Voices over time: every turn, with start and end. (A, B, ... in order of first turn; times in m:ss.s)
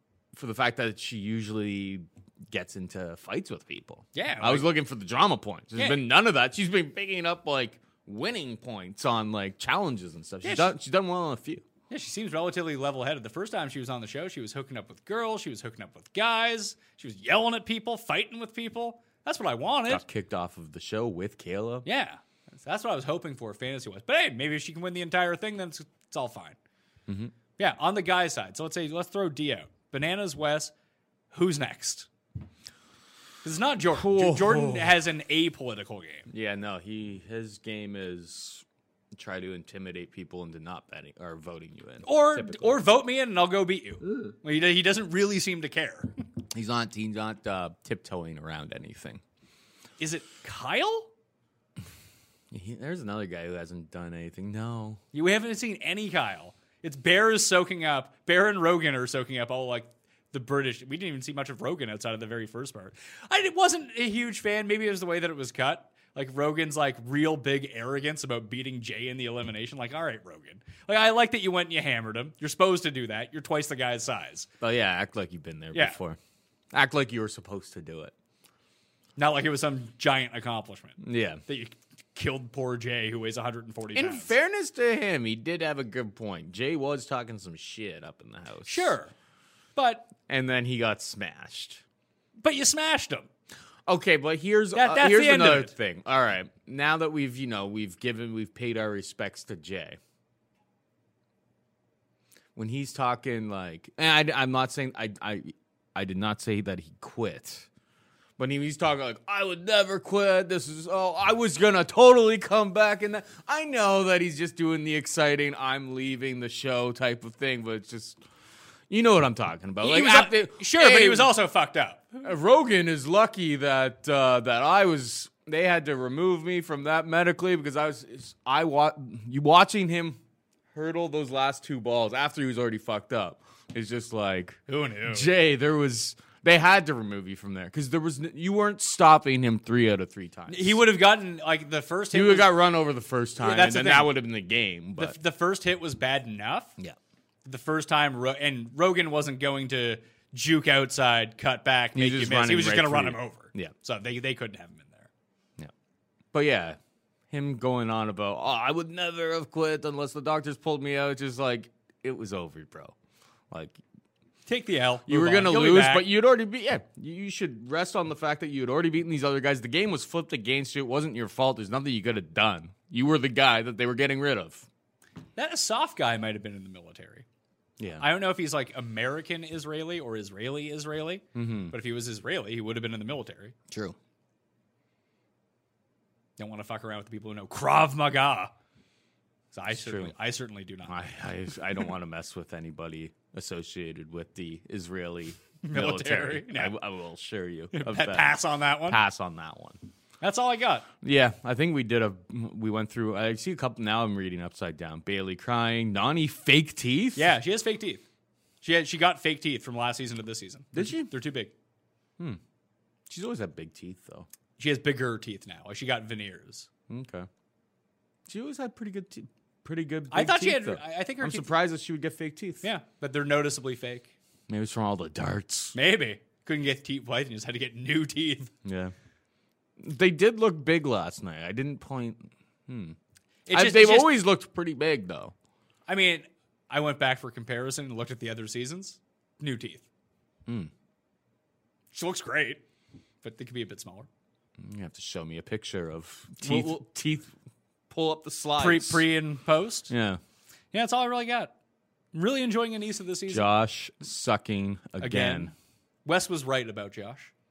0:00.3-0:11.6 A
0:04.2-0:04.7 B
0:10.4-0:10.7 B
0:11.9-0:20.0 B
0:19.9-0:21.9 A
0:21.8-0:26.6 B
0:27.6-0:30.7 B
0:31.3-0:32.1 B
0:33.4-0:36.3 B
0:34.0-0:34.9 A
0:36.3-0:38.6 A
0:39.2-0:42.6 A
0:42.0-0:46.2 B
0:46.5-0:49.2 A
0:50.0-0:51.1 B
0:52.5-0:55.0 A
0:55.1-1:14.5 B
1:14.6-1:16.2 A
1:15.7-1:16.0 B
1:16.7-1:18.1 A
1:19.2-1:24.3 B
1:21.0-1:21.4 A
1:23.9-1:28.9 A
1:28.7-1:29.1 B
1:29.8-1:30.1 B
1:30.3-1:31.8 A
1:32.4-1:33.3 B
1:33.9-1:40.0 A
1:34.8-1:35.7 B
1:42.6-1:47.7 A
1:48.4-1:58.2 A
1:58.9-2:01.3 A
1:59.8-2:02.1 B
2:02.2-2:10.2 A
2:10.7-2:20.8 A
2:14.7-2:15.3 B
2:20.5-2:22.5 B
2:22.1-2:25.2 A
2:23.4-2:24.1 B
2:25.0-2:26.8 B
2:27.4-2:35.1 B
2:32.0-2:33.7 A
2:36.3-2:36.8 A
2:37.3-2:42.9 A
2:43.5-2:43.8 A
2:44.5-2:46.1 B
2:45.1-2:54.7 A
2:55.4-2:57.2 B
2:57.8-2:58.0 A
2:58.0-3:03.5 B
3:01.4-3:01.7 A
3:03.7-3:04.0 A
3:06.4-3:08.5 B
3:09.5-3:11.1 B
3:09.7-3:10.1 A
3:10.8-3:19.8 A
3:15.6-3:16.7 B
3:17.7-3:19.0 B
3:20.2-3:20.9 B
3:21.0-3:27.3 A
3:27.2-3:28.0 B
3:28.6-3:31.5 B
3:30.7-3:31.1 A
3:33.1-3:34.3 A
3:34.6-3:36.7 B
3:36.9-3:37.3 A
3:38.3-3:42.7 A
3:40.1-3:41.6 B
3:42.6-3:44.1 B
3:44.5-3:45.8 A
3:45.8-3:48.5 B
3:48.6-3:48.9 A
3:49.8-3:53.0 A
3:53.5-3:54.2 B
3:53.5-3:55.3 A
3:55.9-3:59.8 B
4:01.9-4:02.6 B
4:03.2-4:04.1 B
4:04.6-4:07.3 A
4:06.4-4:06.7 B
4:07.9-4:09.0 A
4:08.6-4:09.9 B
4:09.9-4:10.2 A
4:10.7-4:11.5 B
4:12.1-4:13.4 B
4:13.3-4:15.5 A
4:15.0-4:15.5 B
4:16.0-4:17.3 B